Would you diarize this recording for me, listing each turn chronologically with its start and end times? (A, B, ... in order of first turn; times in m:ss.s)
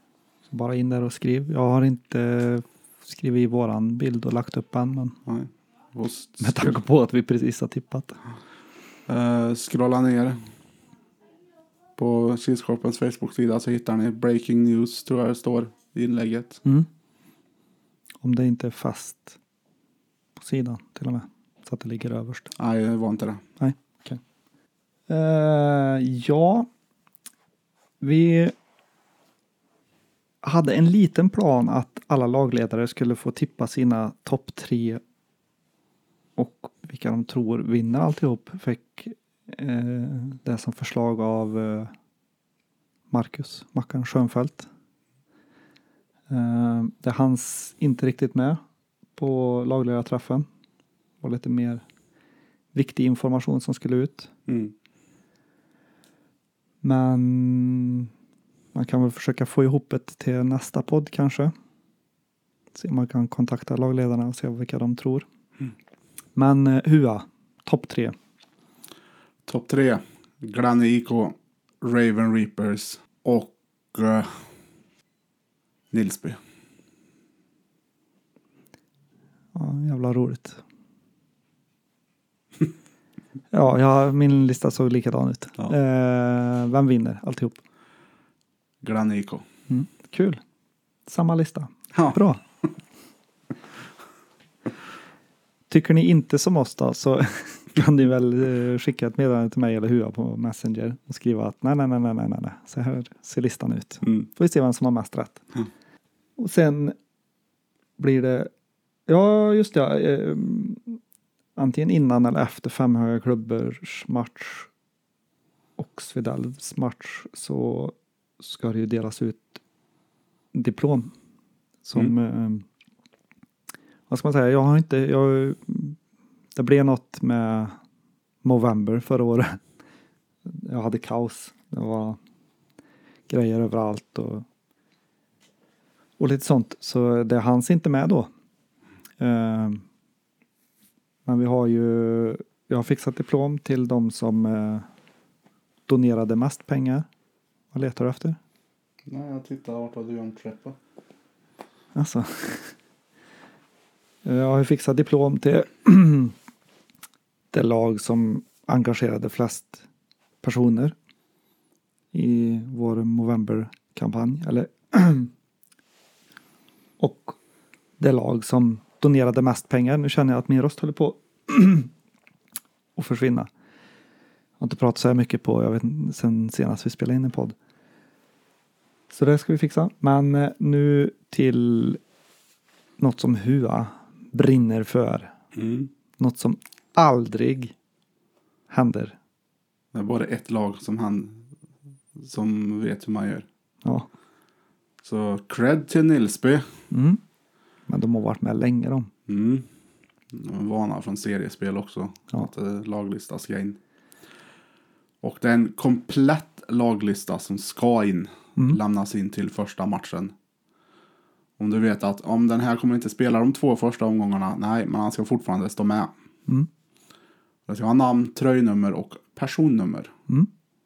0:00.5-0:05.2 A
0:05.3-0:06.8 B
0:06.4-0:08.2 A
0:09.1-0:10.4 B
0:12.0-0:16.6 B
0:18.2-0:19.4 A
0:20.4-0:22.5 A
0:22.6-0:23.4 B
0:23.6-0:24.2 A
0:25.1-0:26.7 A
0:28.0-0:28.6 A
0:30.4-0:35.0 A
0:36.4-0:41.9 A
0:43.1-0:44.7 A
0:46.3-0:48.6 A
0:49.2-0:50.5 A
0:51.2-0:51.8 A
0:52.7-0:54.3 A
0:54.5-0:54.7 B
0:56.8-0:58.1 A
0:58.7-1:01.5 A
1:02.7-1:05.2 A
1:06.4-1:08.2 A
1:09.5-1:14.4 B
1:15.9-1:16.4 B
1:19.5-1:20.6 A
1:23.5-1:27.6 A
1:28.8-1:29.4 B
1:29.7-1:30.4 A
1:31.1-1:32.4 A
1:35.7-1:45.4 A
1:46.4-1:47.0 A
1:48.0-1:48.5 A
1:49.1-1:51.0 A
1:51.6-1:54.7 A
1:55.8-1:59.6 A
2:00.5-2:01.1 A
2:01.8-2:02.6 A
2:04.1-2:06.0 A
2:06.6-2:07.8 A
2:08.4-2:09.6 A
2:10.5-2:12.2 A
2:13.3-2:14.4 A
2:16.2-2:18.3 A
2:19.2-2:19.8 A
2:21.3-2:24.9 A
2:25.9-2:27.1 A
2:27.7-2:28.4 A
2:29.1-2:30.8 B
2:32.0-2:32.7 A
2:34.2-2:36.4 A
2:37.5-2:39.8 A
2:40.4-2:41.0 A
2:42.1-2:45.3 A
2:47.0-2:47.4 A
2:48.0-2:51.9 A
2:53.0-2:53.5 A
2:54.6-2:57.6 A
2:59.1-3:02.0 A
3:03.0-3:05.3 A
3:05.5-3:05.9 B
3:06.2-3:07.7 A
3:08.7-3:09.2 A
3:09.9-3:11.5 B
3:12.2-3:13.5 B
3:15.0-3:16.7 B
3:16.9-3:17.2 A
3:17.9-3:19.1 A
3:19.3-3:19.7 B
3:20.3-3:23.8 B
3:25.2-3:30.3 B
3:31.6-3:36.1 B
3:37.7-3:40.1 B